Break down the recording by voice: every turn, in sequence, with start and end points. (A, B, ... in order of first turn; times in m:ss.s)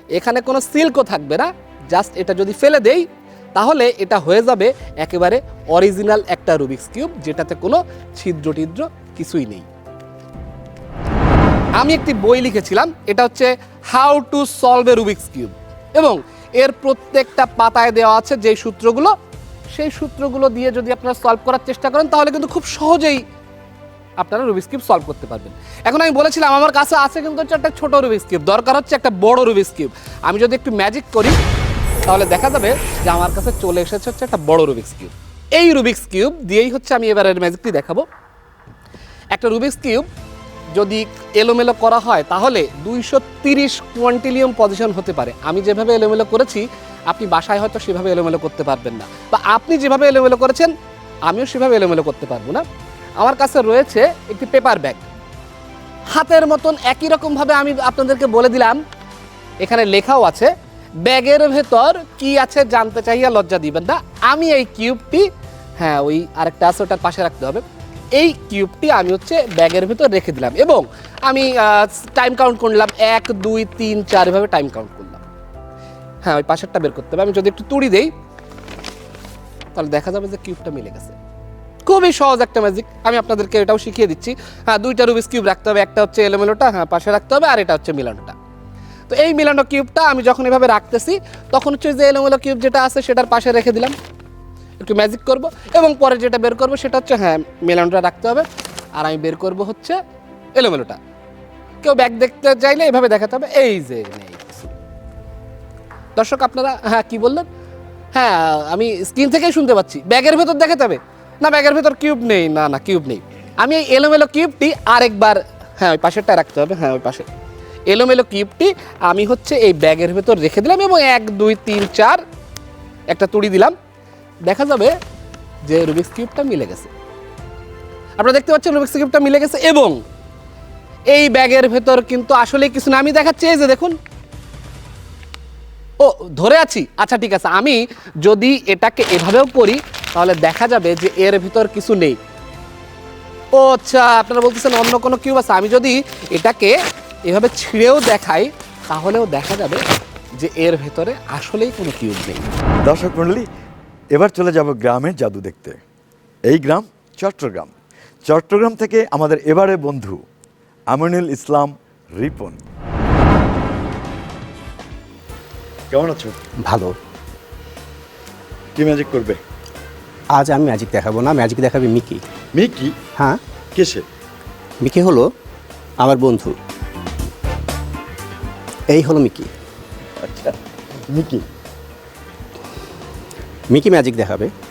0:00.2-0:09.7 A
0:11.8-0:19.1 A
0:19.7-0:23.2 A
0:24.2-0:31.4 A
0:32.1-0:38.1 A
0:39.3-0:40.1 A
0:40.8-0:50.7 A
0:51.3-0:52.6 A
0:53.2-0:55.0 A
0:56.1-0:58.8 A
0:59.6-1:00.5 A
1:01.0-1:05.3 A
1:05.8-1:07.6 A
1:08.2-1:15.2 A
1:16.2-1:18.1 A
1:19.7-1:21.2 A
1:21.9-1:28.4 A
1:29.1-1:34.0 A
1:34.8-1:40.0 A
1:40.6-1:41.0 A
1:41.8-1:44.7 A
1:46.2-1:47.5 A
1:48.1-1:57.3 A
1:57.9-2:02.2 A
2:03.1-2:03.8 A
2:04.5-2:05.0 A
2:05.6-2:06.9 A
2:08.2-2:10.0 A
2:11.1-2:14.0 A
2:16.0-2:22.2 A
2:23.6-2:29.8 A
2:30.4-2:32.5 A
2:32.8-2:33.5 B
2:34.1-2:35.8 B
2:36.5-2:37.7 B
2:38.3-2:40.2 B
2:40.9-2:42.6 B
2:45.9-2:46.4 B
2:46.6-2:47.0 C
2:48.8-2:49.4 B
2:50.4-2:52.2 C
2:52.5-2:53.0 B
2:53.8-2:54.1 B
2:54.8-2:55.3 C
2:56.0-2:56.5 C
2:58.9-2:59.5 C
3:00.2-3:00.6 B
3:01.1-3:01.5 B
3:03.7-3:04.5 C